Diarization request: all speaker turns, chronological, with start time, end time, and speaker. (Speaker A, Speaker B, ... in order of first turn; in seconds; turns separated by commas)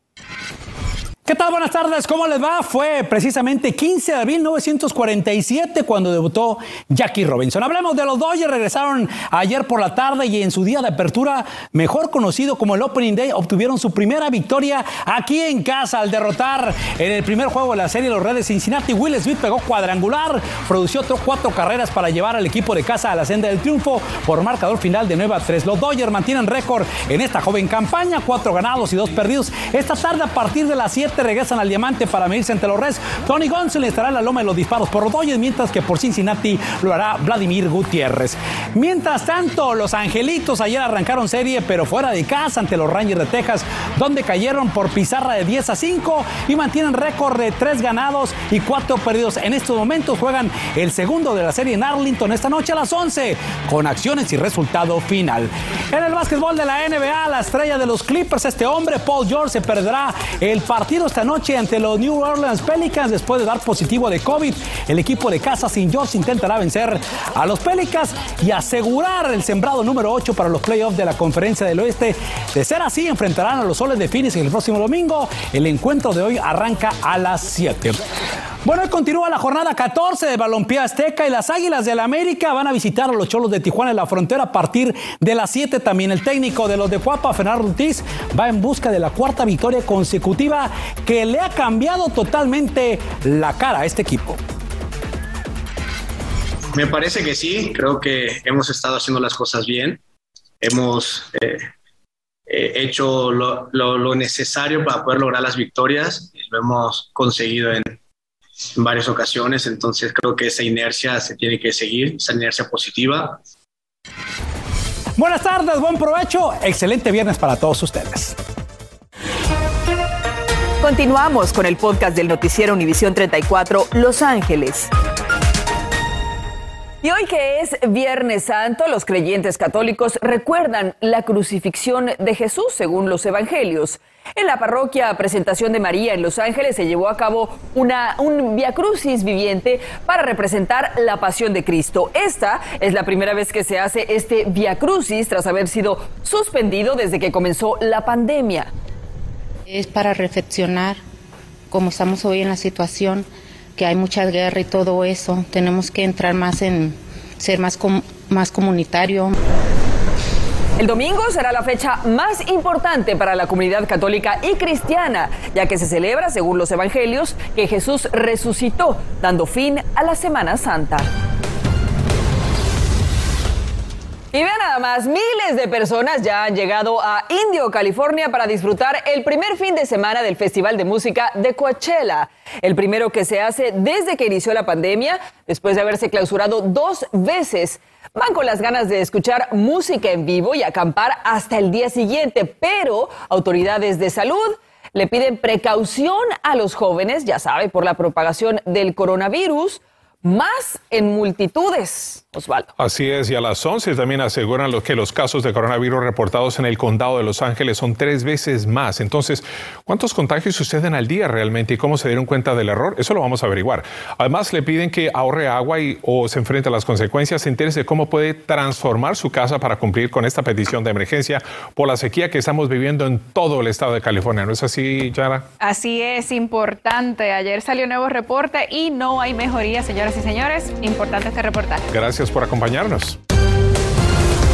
Speaker A: 1.3-78.0, Speaker A: 78.6-94.4, Speaker B: 96.8-100.0, Speaker B: 100.6-101.6, Speaker B: 102.5-108.0, Speaker B: 108.8-113.4, Speaker A: 115.2-118.4, Speaker C: 120.8-124.9, Speaker C: 127.0-148.7, Speaker D: 149.7-151.0, Speaker D: 151.7-153.2, Speaker D: 153.8-159.3, Speaker C: 160.8-171.1, Speaker C: 174.3-202.7, Speaker E: 202.8-225.5, Speaker D: 225.6-228.0, Speaker F: 225.7-231.6, Speaker D: 228.7-231.8, Speaker E: 231.9-233.2